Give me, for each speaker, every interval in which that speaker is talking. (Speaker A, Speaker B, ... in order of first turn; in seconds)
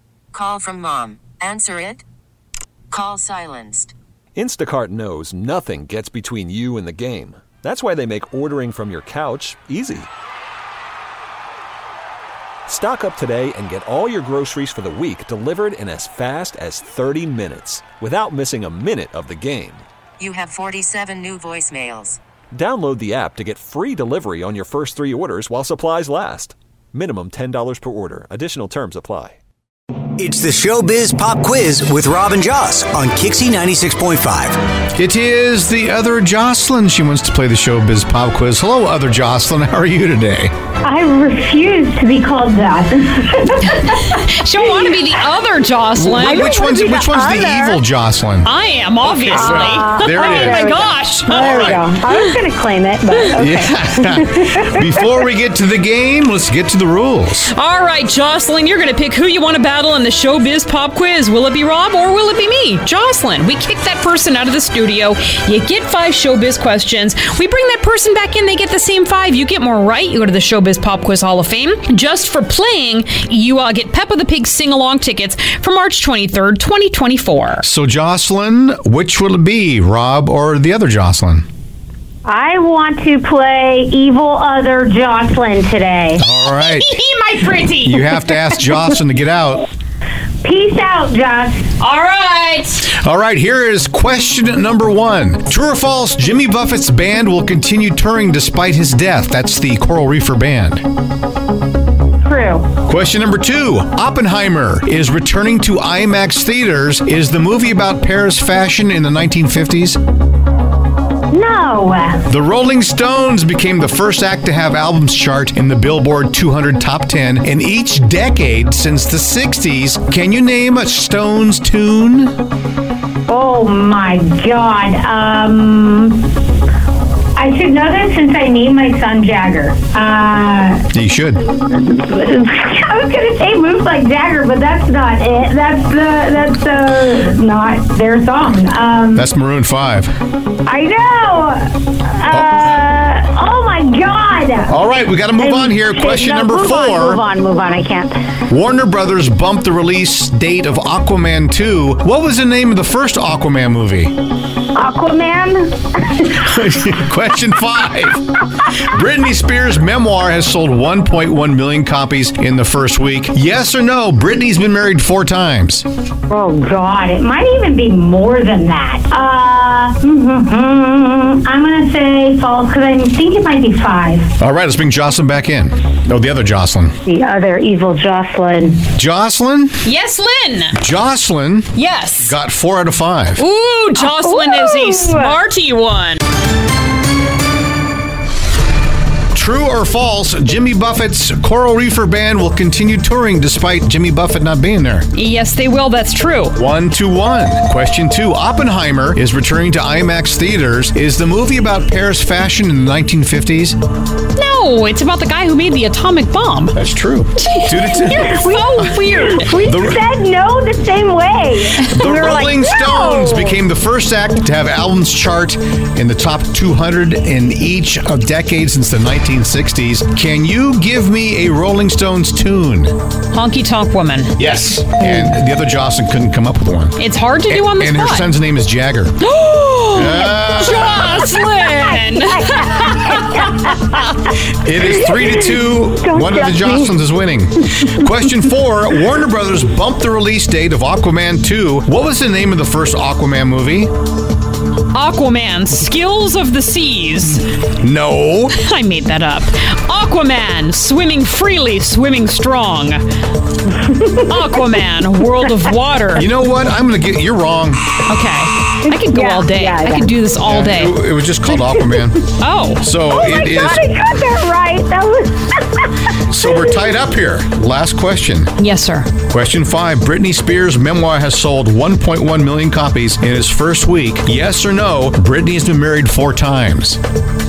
Speaker A: 0.3-2.0, 2.9-3.9, 20.2-22.2
Speaker B: 4.3-10.1, 12.7-19.8, 22.5-29.4
Speaker C: 30.2-34.6
Speaker D: 34.9-40.5, 46.0-48.5, 49.0-51.9, 53.4-57.5, 77.6-81.4, 86.2-86.9, 87.8-89.6, 92.8-100.8, 102.8-110.0, 112.3-122.3, 130.9-131.4, 139.1-140.1, 142.3-142.7, 144.7-147.2, 148.5-154.1, 156.4-165.8, 174.4-176.9, 178.9-179.8, 180.7-183.4, 189.3-195.1, 196.5-203.8, 206.7-208.7, 209.6-210.0, 211.8-222.9, 224.4-229.2, 229.9-231.2, 234.5-243.9, 247.8-248.6, 256.1-257.9, 260.4-263.8, 266.3-268.5, 269.3-277.0
Speaker E: 40.8-44.1, 46.5-47.7, 49.3-54.7, 82.2-86.2, 90.4-91.7, 102.2-102.7, 111.3-112.2, 123.3-126.2, 127.3-130.8, 131.7-139.2, 140.6-144.7, 145.3-148.1, 154.7-156.4, 166.3-174.3, 177.1-178.8, 184.0-185.4, 208.3-213.6, 231.4-233.7, 235.2-236.9, 253.7-254.3, 258.8-260.1, 263.1-266.8
Speaker F: 43.7-46.6, 48.4-51.8, 57.5-77.6, 86.5-88.4, 91.8-92.8, 179.8-180.8, 181.7-182.3, 183.4-186.2, 195.1-196.6, 204.3-206.8, 207.4-209.5, 223.3-224.3, 227.0-228.3, 229.2-234.2, 244.9-247.4, 248.6-253.0, 254.2-256.3, 258.1-261.0, 262.4-262.9, 268.6-269.1